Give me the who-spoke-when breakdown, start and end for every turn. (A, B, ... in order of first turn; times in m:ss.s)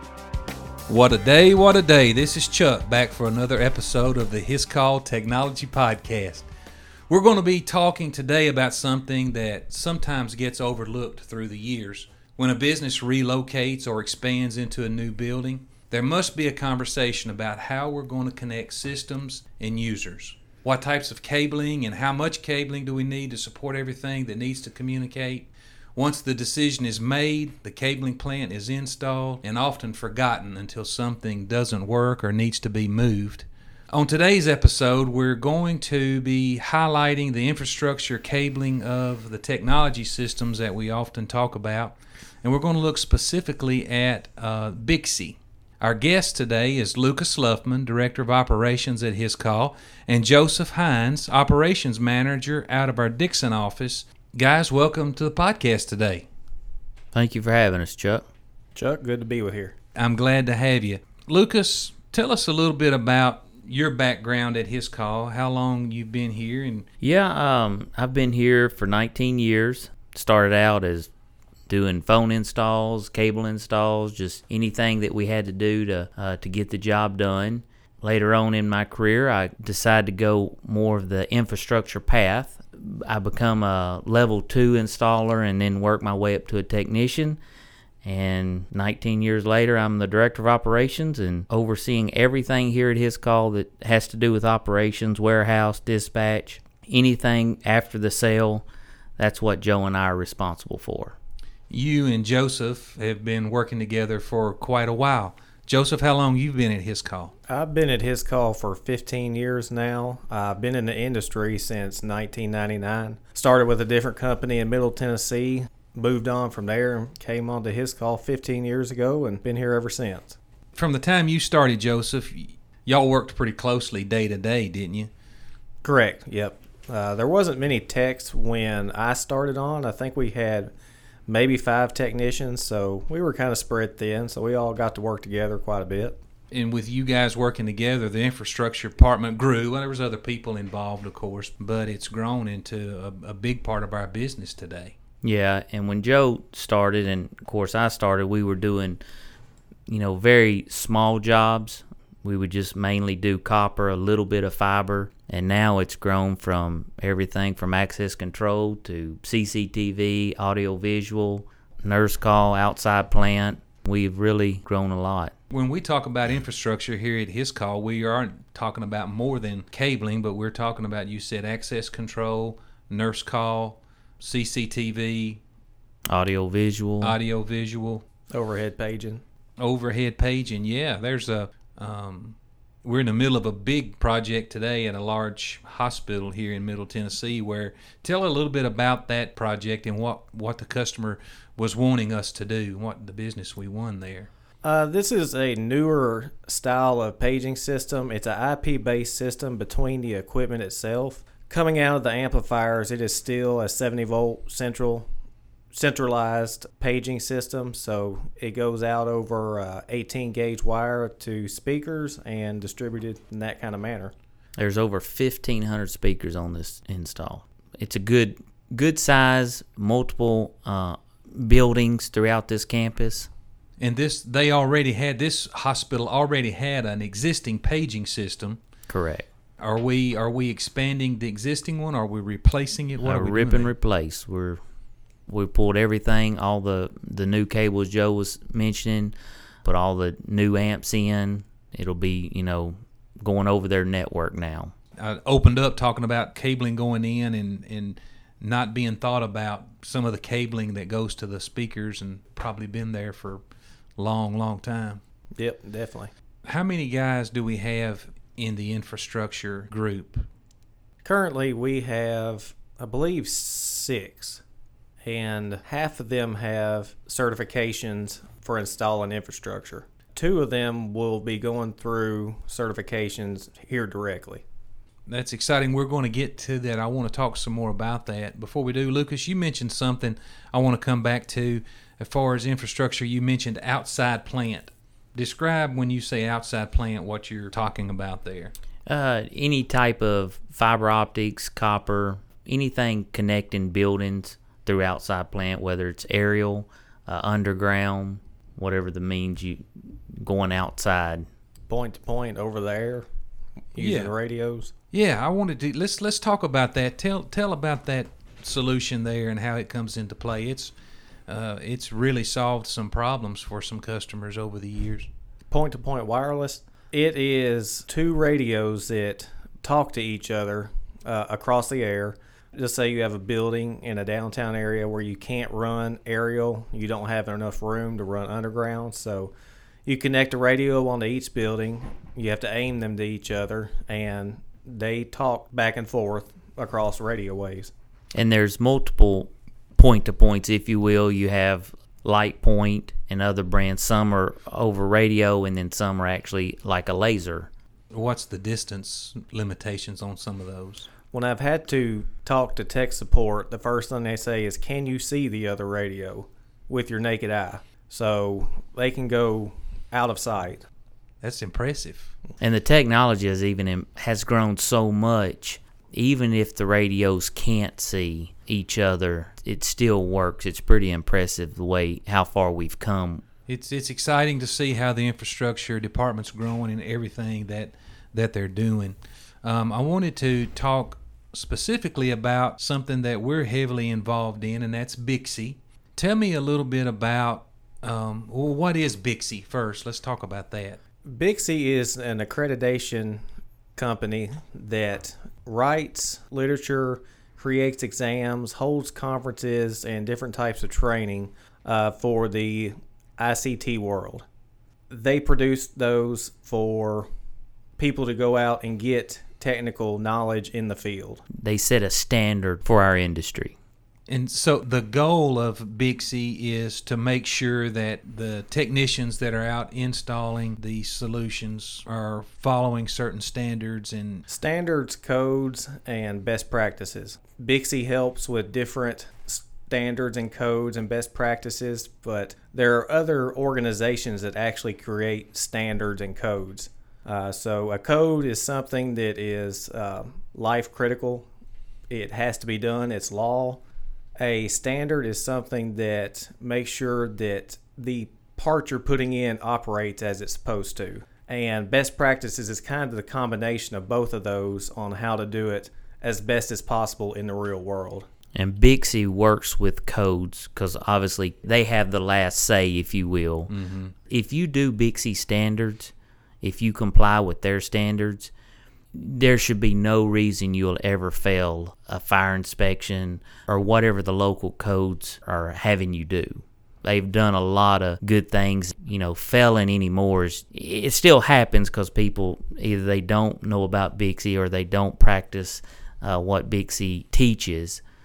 0:00.9-0:06.5 A
0:07.1-0:56.2 A
0:57.1-0:58.2 B
0:58.7-0:59.7 C
0:59.9-1:06.9 A
1:07.0-1:11.1 B
1:11.7-1:27.4 B
1:28.0-1:38.6 B
1:39.2-1:41.2 B
1:41.7-1:47.3 A
1:47.5-2:00.4 C
2:00.8-2:05.1 A
2:05.8-2:10.7 C
2:11.3-2:16.2 C
2:16.5-2:24.9 A
2:25.2-2:29.0 B
2:29.9-2:45.3 B
2:45.5-2:55.4 A
2:56.1-2:57.2 B
2:57.0-2:58.0 A
2:58.3-2:59.2 C
2:59.6-3:14.3 A
3:14.6-3:25.1 C
3:25.7-3:34.1 C
3:34.6-3:43.3 B
3:43.8-3:48.6 A
3:48.9-3:49.2 B
3:49.6-3:53.7 A
3:53.0-3:54.6 B
3:55.3-3:59.1 B
3:59.6-4:04.7 B
4:05.0-4:13.4 A
4:14.0-4:15.0 A
4:15.4-4:16.1 C
4:16.4-4:20.3 A
4:21.0-4:24.4 C
4:25.0-4:34.4 C
4:35.1-4:48.5 A
4:48.9-5:01.3 B
5:01.7-5:03.1 C
5:03.7-5:04.7 C
5:03.8-5:04.1 A
5:04.9-5:10.7 A
5:11.3-5:15.1 A
5:15.5-5:29.3 C
5:29.9-5:37.7 C
5:38.1-5:47.5 B
5:47.9-5:50.9 A
5:51.1-6:00.7 C
6:01.2-6:02.1 A
6:02.4-6:13.2 B
6:13.5-6:30.8 A
6:31.0-6:33.2 C
6:33.8-6:44.3 C
6:44.9-6:47.1 C
6:47.8-6:51.2 C
6:51.3-6:53.6 B
6:54.1-7:04.2 A
7:04.3-7:21.3 C
7:21.9-7:23.6 C
7:24.2-7:38.1 C
7:38.4-7:43.5 B
7:43.5-7:43.9 A
7:44.1-7:48.3 B
7:48.9-8:07.8 B